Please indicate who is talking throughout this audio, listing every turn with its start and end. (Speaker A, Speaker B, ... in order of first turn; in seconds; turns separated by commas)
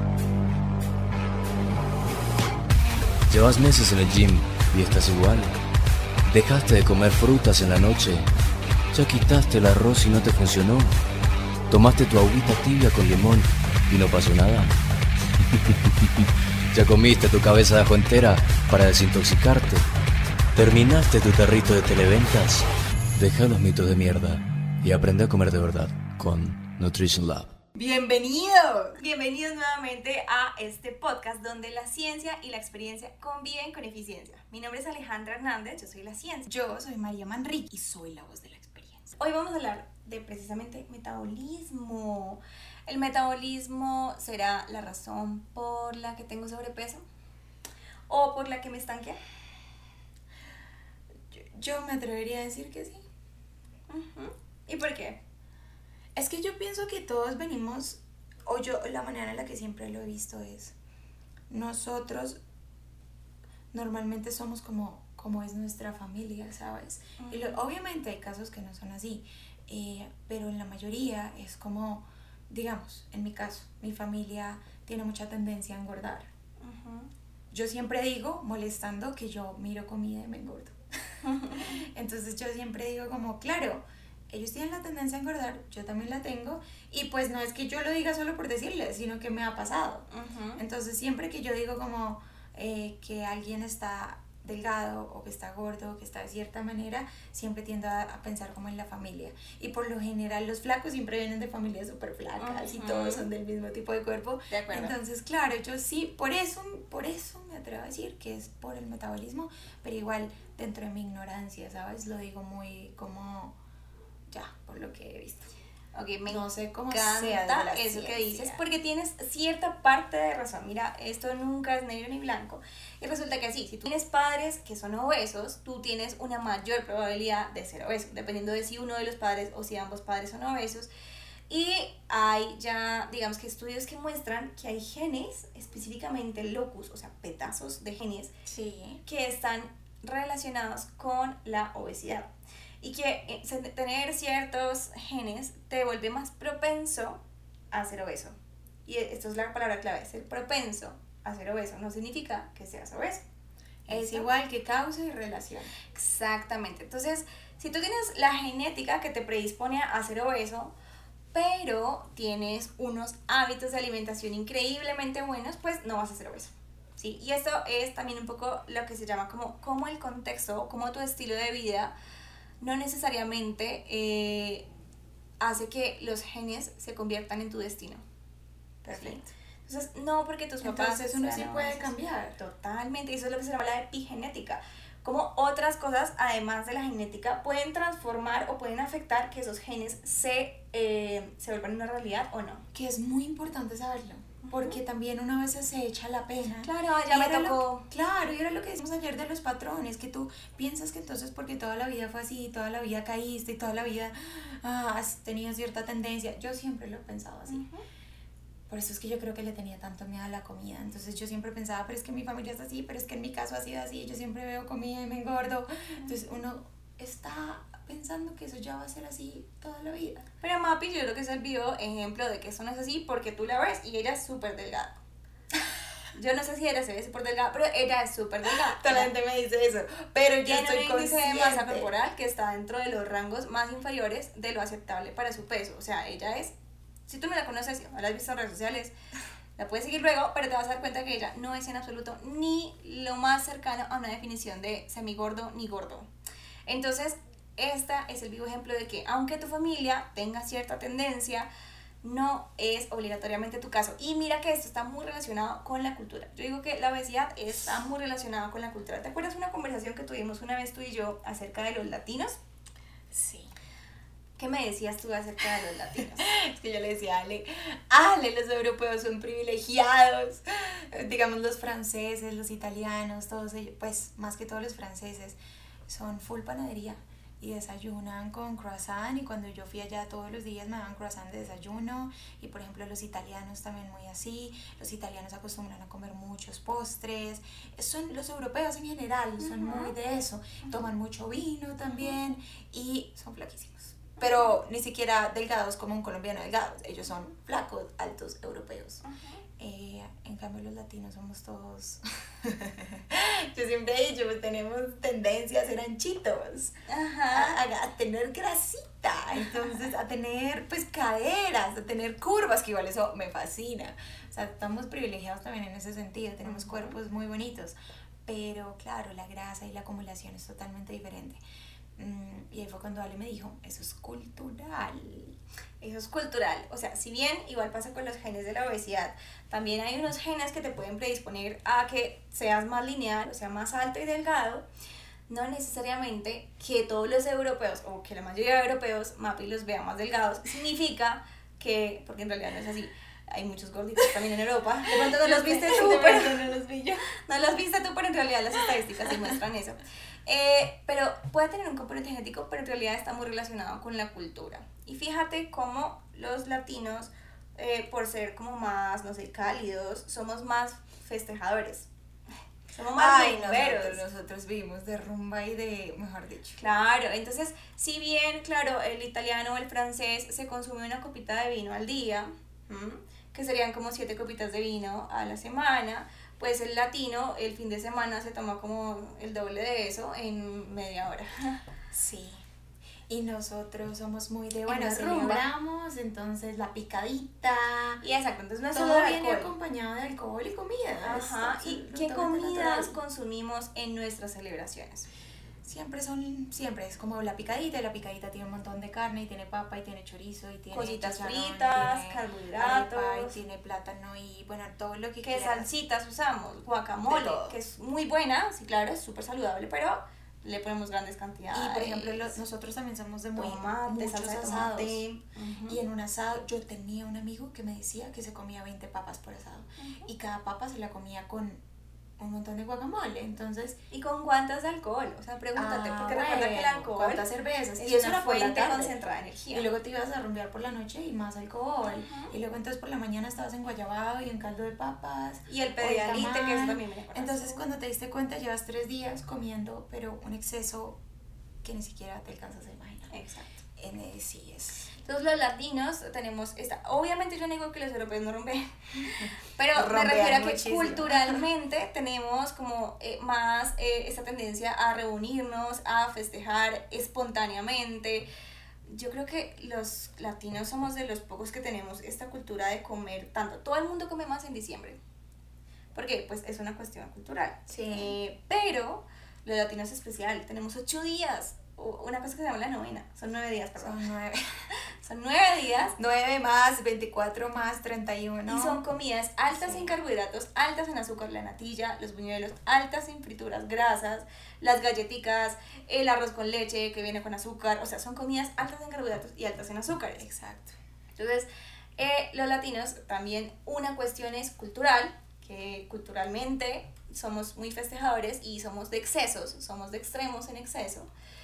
Speaker A: 3.3-5.5, Speaker A: 6.3-8.3, Speaker A: 8.9-11.0, Speaker A: 11.7-14.7, Speaker A: 15.5-19.9, Speaker A: 20.6-27.5, Speaker B: 27.7-29.0, Speaker C: 29.0-36.5, Speaker B: 36.5-39.2, Speaker C: 39.2-47.0, Speaker C: 48.1-49.2, Speaker B: 51.3-53.0, Speaker C: 53.9-55.2, Speaker B: 56.2-60.8, Speaker B: 61.5-62.4, Speaker B: 63.7-76.3, Speaker C: 67.2-67.6, Speaker C: 76.6-77.1, Speaker B: 77.5-80.8, Speaker C: 81.2-81.8, Speaker B: 81.5-113.6, Speaker C: 90.1-90.6, Speaker C: 102.4-103.3, Speaker C: 104.5-104.9, Speaker B: 114.3-115.5, Speaker C: 116.0-130.9, Speaker B: 116.3-118.6, Speaker C: 131.5-138.3, Speaker B: 138.5-139.0, Speaker C: 139.0-142.3, Speaker C: 142.8-147.2, Speaker C: 147.7-148.3, Speaker C: 148.9-153.2, Speaker C: 153.9-154.3, Speaker B: 153.9-155.7, Speaker C: 155.9-160.7, Speaker C: 161.3-171.9, Speaker C: 172.6-174.7, Speaker C: 175.4-178.0, Speaker B: 178.8-179.3, Speaker C: 178.9-192.6, Speaker B: 180.6-182.4, Speaker B: 192.7-207.6, Speaker C: 194.4-194.8, Speaker C: 196.6-197.9, Speaker C: 207.5-207.8, Speaker B: 208.7-220.3, Speaker C: 220.4-224.9, Speaker C: 226.1-229.1, Speaker B: 228.7-231.9, Speaker C: 230.4-236.5, Speaker C: 237.1-238.9, Speaker C: 239.6-246.1, Speaker C: 246.7-251.5, Speaker C: 252.0-262.4, Speaker B: 263.1-263.5, Speaker C: 264.4-266.3, Speaker B: 266.2-299.0, Speaker C: 289.4-289.9, Speaker C: 291.9-292.1, Speaker C: 294.2-294.6, Speaker C: 299.0-299.4, Speaker B: 299.6-306.7, Speaker C: 306.9-307.6, Speaker B: 307.3-321.4, Speaker C: 316.4-317.0, Speaker B: 322.0-325.4, Speaker C: 325.8-334.6, Speaker C: 335.3-346.4, Speaker B: 344.9-347.1, Speaker C: 347.2-361.9, Speaker C: 362.7-364.0, Speaker B: 362.9-366.6, Speaker C: 366.6-381.6, Speaker B: 381.9-382.4, Speaker B: 383.1-388.0, Speaker C: 384.7-385.4, Speaker C: 388.0-389.5, Speaker B: 388.7-393.0, Speaker C: 391.0-395.1, Speaker B: 395.6-405.7, Speaker C: 400.7-403.4, Speaker C: 405.2-412.4, Speaker B: 407.0-407.6, Speaker B: 411.5-415.0, Speaker C: 413.4-415.8, Speaker B: 415.7-421.6, Speaker C: 419.8-420.1, Speaker B: 422.2-423.8, Speaker C: 423.9-427.2, Speaker B: 425.6-429.0, Speaker C: 427.8-429.7, Speaker B: 429.5-441.0, Speaker C: 431.8-432.3, Speaker C: 435.5-437.6, Speaker B: 441.6-443.1, Speaker C: 443.1-443.6, Speaker B: 443.8-444.9, Speaker C: 445.0-458.3, Speaker B: 449.2-451.5, Speaker C: 458.9-465.0, Speaker C: 465.9-474.0, Speaker B: 467.7-468.1, Speaker B: 473.8-474.4, Speaker C: 475.0-476.0, Speaker B: 476.0-478.8, Speaker C: 478.5-490.2, Speaker B: 479.5-480.0, Speaker B: 490.2-490.8, Speaker C: 491.2-501.1